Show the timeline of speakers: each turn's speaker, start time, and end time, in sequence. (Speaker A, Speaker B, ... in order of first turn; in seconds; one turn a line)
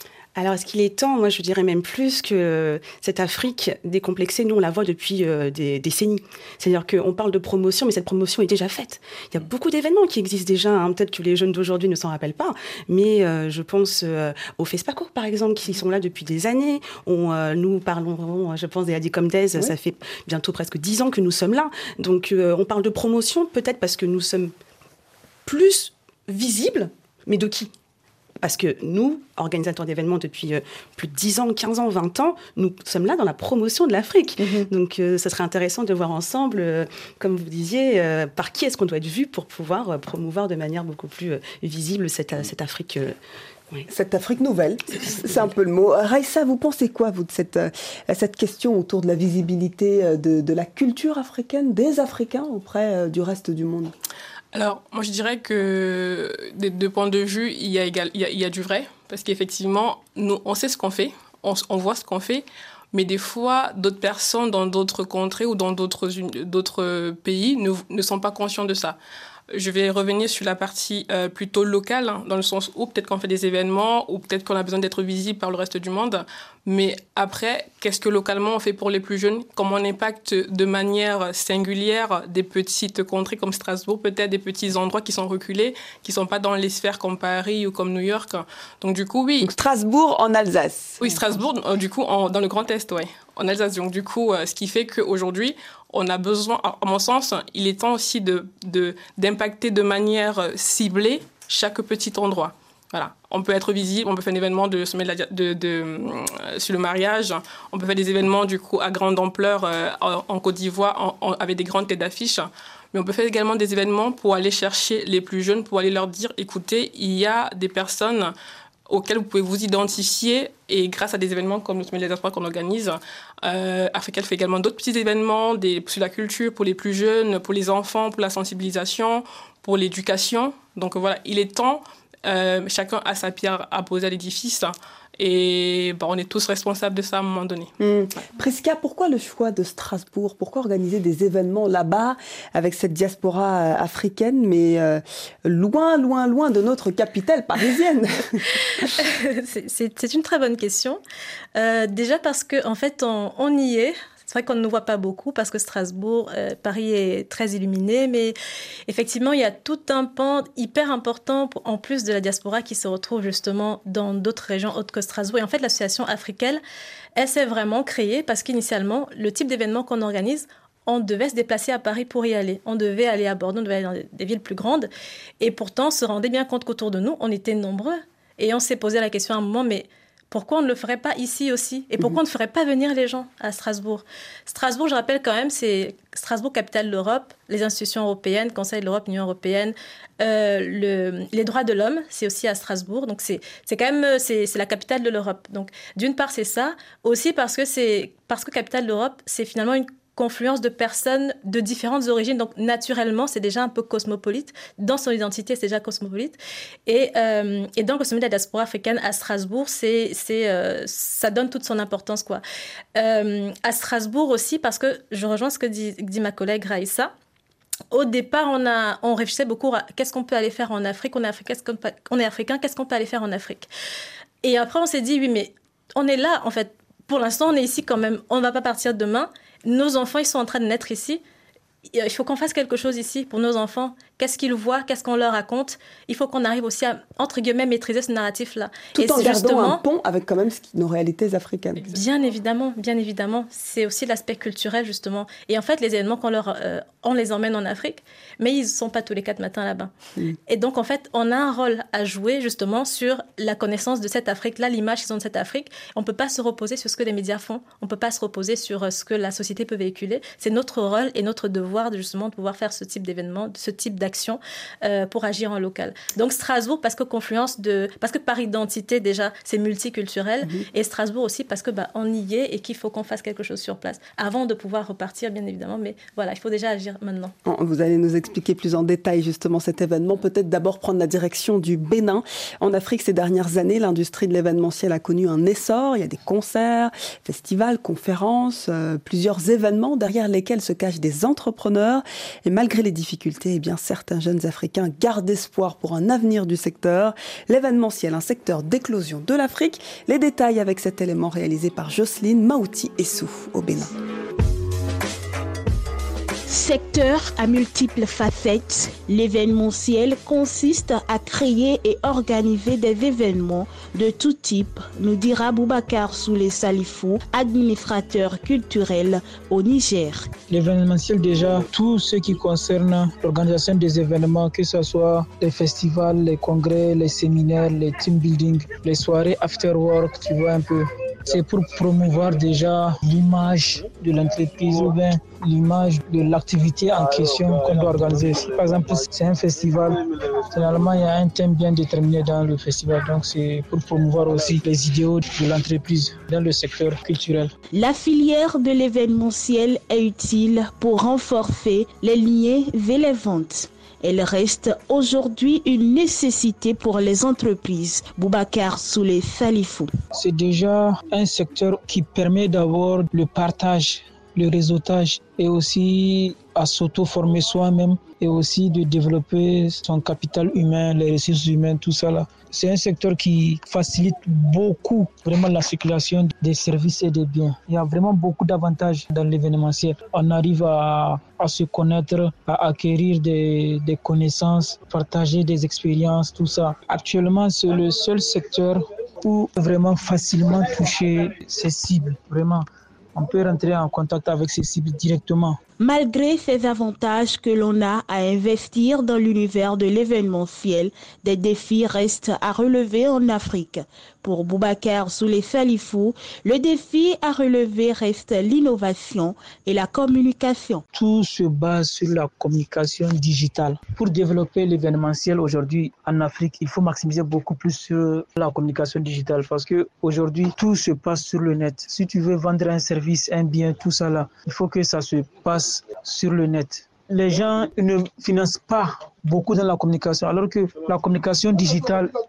Speaker A: 0.3-24.5
Speaker A: 25.4-27.7
Speaker A: 28.4-43.1
Speaker B: 34.4-34.7
Speaker B: 43.9-53.9
Speaker C: 54.5-69.0
Speaker C: 69.5-89.5
Speaker B: 89.4-91.1
Speaker C: 91.0-118.3
Speaker C: 118.9-137.7
Speaker B: 137.8-148.8
Speaker D: 148.8-151.0
Speaker D: 151.6-158.3
Speaker D: 158.9-166.6
Speaker D: 167.2-174.9
Speaker D: 175.4-212.4
Speaker D: 212.9-217.1
Speaker D: 217.9-223.7
Speaker D: 224.4-231.2
Speaker D: 231.9-239.8
Speaker B: 238.9-241.8
Speaker D: 241.8-249.9
Speaker D: 250.5-277.3
Speaker B: 277.4-303.9
Speaker E: 306.5-320.3
Speaker F: 320.5-347.5
Speaker E: 347.7-359.9
Speaker F: 360.1-395.6
Speaker E: 395.8-410.8
Speaker F: 410.9-432.1